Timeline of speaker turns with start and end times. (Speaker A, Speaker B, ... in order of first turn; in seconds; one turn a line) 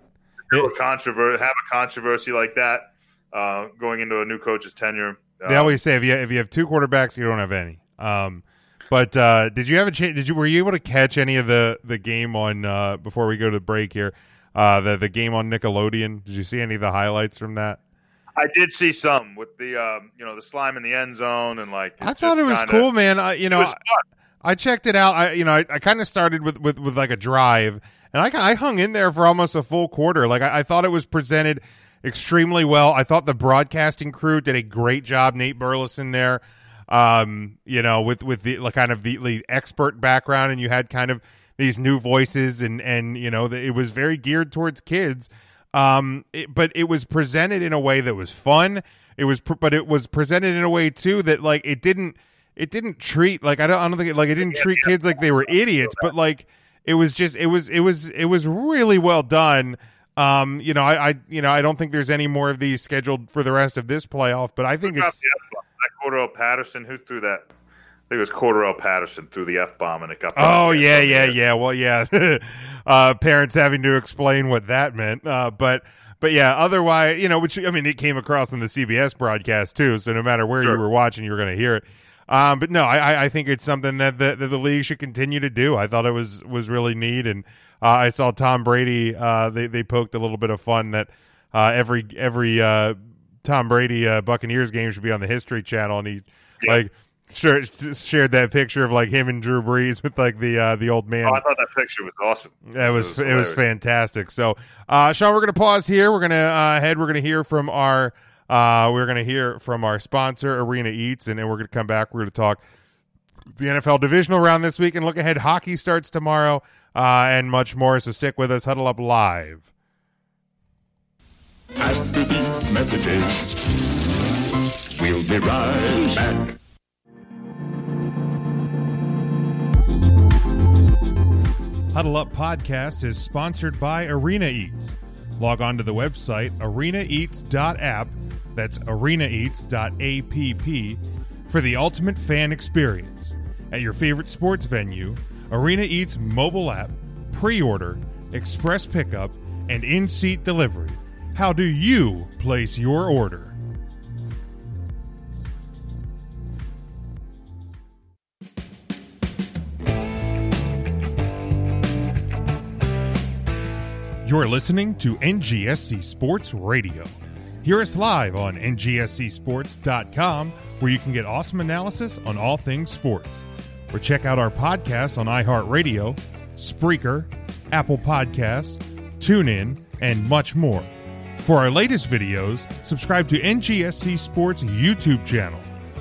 Speaker A: 0.5-5.8
Speaker B: 5.5-17.8
Speaker A: 18.4-22.9
Speaker B: 22.0-23.8
Speaker A: 23.5-24.0
Speaker B: 24.4-65.2
Speaker A: 54.4-56.1
Speaker A: 64.8-67.5
Speaker A: 68.1-71.4
Speaker B: 70.3-101.4
Speaker A: 101.2-103.6
Speaker B: 102.7-112.6
Speaker B: 113.5-119.7
Speaker C: 121.9-123.4
Speaker C: 125.1-126.3
Speaker B: 131.9-153.5
Speaker B: 164.2-167.1
Speaker B: 167.6-185.7